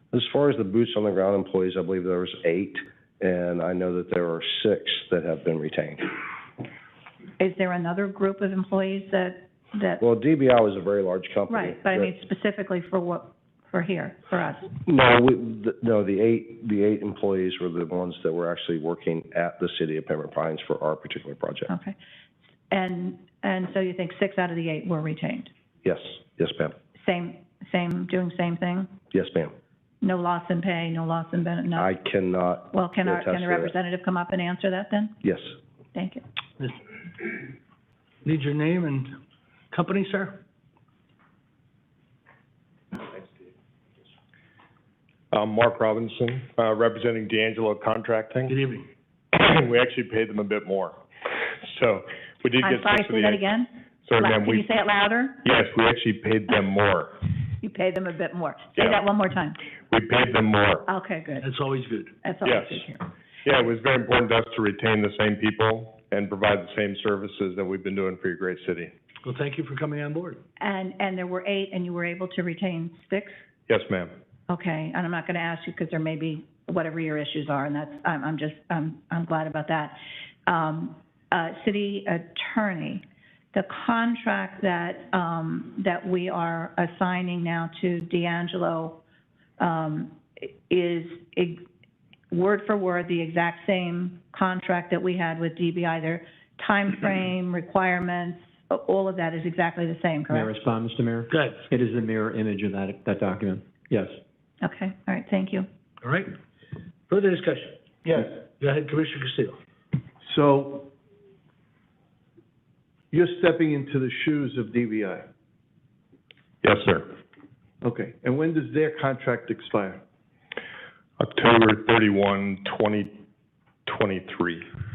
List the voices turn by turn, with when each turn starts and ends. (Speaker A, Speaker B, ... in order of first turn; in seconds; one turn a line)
Speaker A: 0.1-6.1
Speaker B: 7.4-10.0
Speaker A: 10.0-12.1
Speaker B: 11.5-14.8
Speaker A: 14.8-21.7
Speaker B: 21.7-21.9
Speaker B: 22.7-25.5
Speaker A: 25.8-26.8
Speaker B: 27.0-28.9
Speaker A: 29.1-29.5
Speaker B: 30.0-31.9
Speaker A: 31.8-33.7
Speaker B: 32.7-35.1
Speaker A: 35.2-35.5
Speaker B: 35.9-36.2
Speaker C: 36.6-37.4
Speaker C: 38.2-39.1
Speaker C: 39.7-40.4
Speaker D: 45.3-48.5
Speaker C: 48.5-48.9
Speaker D: 49.3-53.4
Speaker B: 52.6-55.4
Speaker D: 54.0-54.6
Speaker D: 55.4-57.1
Speaker B: 57.6-59.6
Speaker D: 59.9-60.9
Speaker B: 60.9-61.6
Speaker C: 61.4-62.1
Speaker B: 62.2-63.1
Speaker D: 62.4-62.9
Speaker D: 63.4-68.9
Speaker C: 69.2-70.4
Speaker B: 70.6-73.4
Speaker D: 73.7-74.1
Speaker B: 74.5-89.0
Speaker B: 89.6-91.6
Speaker B: 92.3-100.5
Speaker E: 100.3-104.2
Speaker C: 101.3-101.6
Speaker B: 104.6-105.7
Speaker C: 106.0-106.3
Speaker C: 107.1-109.6
Speaker F: 110.2-110.9
Speaker F: 113.1-115.2
Speaker D: 116.6-117.1
Speaker F: 117.8-120.0
Speaker D: 121.2-123.2
Speaker D: 123.8-124.7